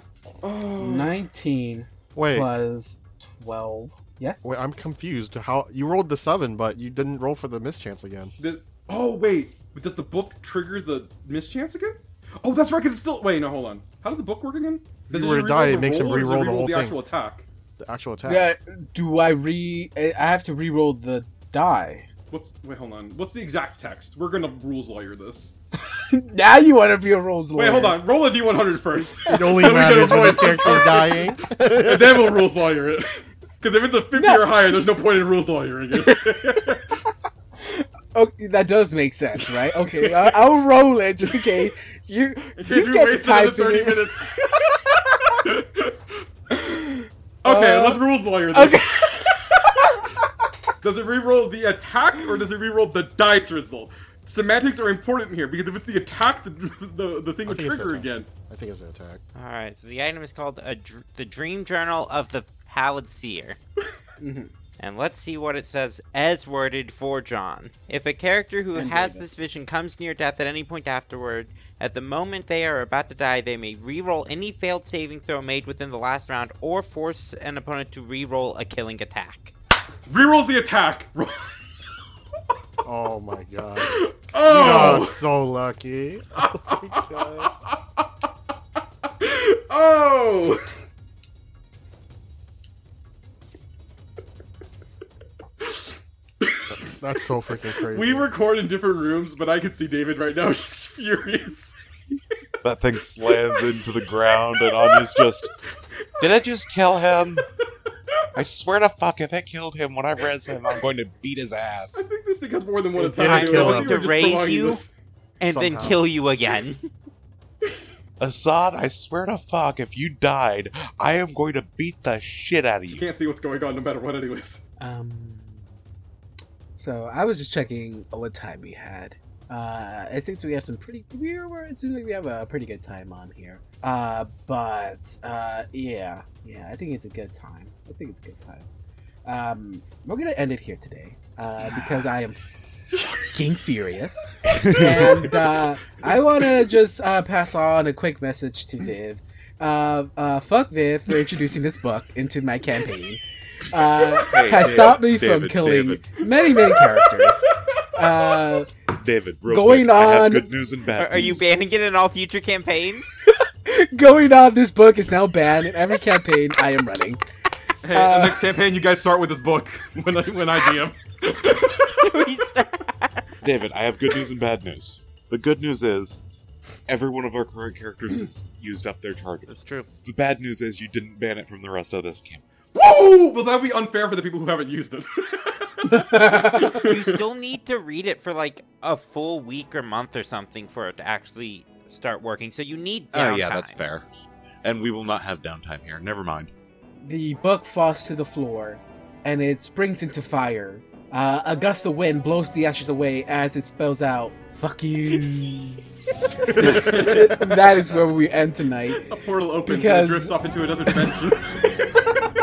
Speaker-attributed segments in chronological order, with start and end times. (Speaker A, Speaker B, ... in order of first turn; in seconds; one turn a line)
Speaker A: 0.4-1.1
Speaker B: 0.8-4.5
Speaker C: 2.1-2.5
Speaker C: 4.4-8.3
Speaker A: 8.4-17.4
Speaker C: 15.1-17.0
Speaker C: 17.8-18.5
Speaker B: 18.2-22.1
Speaker A: 22.3-25.5
Speaker B: 25.9-28.0
Speaker A: 27.5-36.9
Speaker C: 29.2-32.4
Speaker B: 34.1-34.7
Speaker B: 36.0-36.6
Speaker B: 37.6-44.2
Speaker A: 39.4-40.4
Speaker A: 42.6-44.4
Speaker A: 45.4-46.2
Speaker B: 46.5-48.0
Speaker A: 47.4-48.9
Speaker B: 48.5-50.0
Speaker A: 50.8-58.3
Speaker C: 57.4-59.2
Speaker D: 59.3-63.6
Speaker B: 64.2-64.5
Speaker D: 64.8-79.5
Speaker B: 68.7-69.3
Speaker A: 80.1-81.5
Speaker C: 82.8-87.5
Speaker A: 83.8-85.2
Speaker A: 86.3-88.0
Speaker A: 89.0-90.7
Speaker A: 95.6-96.8
Speaker C: 96.7-98.3
Speaker A: 97.7-101.7
Speaker E: 102.6-105.5
Speaker A: 103.2-103.9
Speaker A: 104.5-105.5
Speaker A: 106.0-106.3
Speaker E: 106.2-107.4
Speaker E: 108.3-112.1
Speaker A: 111.9-114.9
Speaker C: 113.0-114.0
Speaker D: 113.2-114.8
Speaker D: 115.4-116.8
Speaker C: 115.4-116.1
Speaker E: 118.2-123.1
Speaker A: 122.9-124.6
Speaker B: 124.8-125.7
Speaker B: 126.7-138.7
Speaker B: 139.2-142.4
Speaker E: 141.7-142.1
Speaker B: 143.2-158.7
Speaker E: 144.4-145.4
Speaker E: 154.2-156.0
Speaker A: 156.7-157.3
Speaker E: 158.9-161.5
Speaker B: 159.4-160.6
Speaker D: 160.9-163.1
Speaker B: 163.7-167.2
Speaker A: 167.8-172.4
Speaker B: 167.9-168.5
Speaker D: 172.0-173.3
Speaker E: 173.4-176.2
Speaker E: 176.9-182.4
Speaker D: 179.5-179.9
Speaker A: 182.7-187.2
Speaker B: 185.8-186.8
Speaker D: 186.5-193.8
Speaker E: 193.1-194.1
Speaker E: 194.6-196.5
Speaker B: 197.0-205.8
Speaker B: 206.5-209.1
Speaker A: 206.5-208.0
Speaker C: 206.6-206.9
Speaker A: 208.9-211.6
Speaker B: 209.7-210.3